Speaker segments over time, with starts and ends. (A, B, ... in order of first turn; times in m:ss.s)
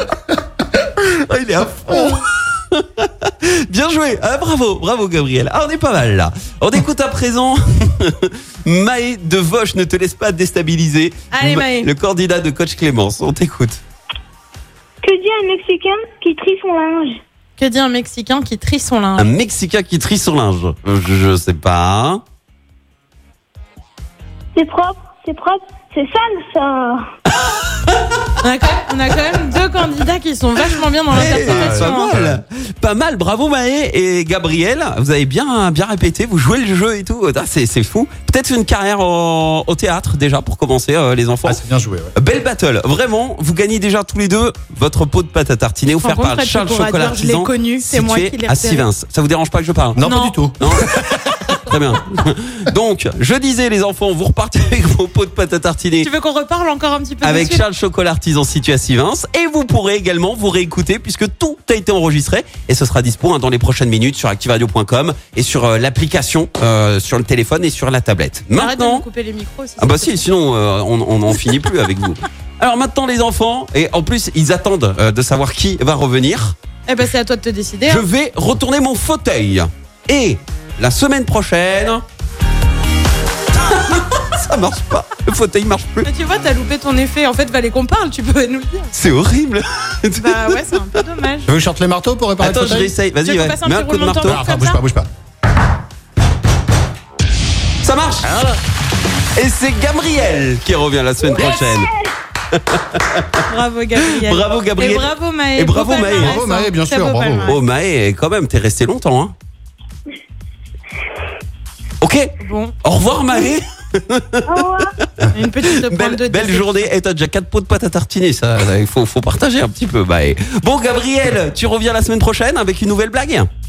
0:00.8-0:13.8 A
0:11.3-0:11.9 B
0:15.0-0:17.2 C
0:17.6-0:19.3 B
0:19.2-0:22.2 A
0:24.6-0:27.0 C
0:27.5-0:28.0 A
0:28.4-0:32.1 B
0:31.1-0:41.6 A
0:31.1-0:32.4 D
0:41.4-0:42.1 D
0:42.2-0:50.9 A
0:46.0-0:48.9 B
0:50.0-0:51.5 D
0:50.0-0:50.4 B
0:51.5-0:56.1 A
0:56.0-0:57.6 B
0:57.2-1:09.0 A
1:08.6-1:10.3 B
1:09.8-1:16.5 A
1:16.9-1:18.0 B
1:17.9-1:22.0 A
1:23.6-1:26.1 A
1:26.0-1:28.9 B
1:28.9-1:30.7 A
1:30.2-1:31.5 B
1:31.5-1:33.0 D
1:32.4-1:34.4 A
1:33.1-1:34.8 B
1:34.2-1:35.1 D
1:37.8-1:38.3 A
1:38.2-1:38.6 D
1:39.3-1:41.9 A
1:41.2-1:42.1 C
1:42.5-1:43.3 A
1:43.5-1:47.6 B
1:44.1-1:46.4 A
1:46.2-1:47.6 D
1:47.4-1:49.3 A
1:52.0-2:03.5 A
1:52.4-1:52.7 B
1:54.5-1:54.9 C
1:55.3-1:56.9 B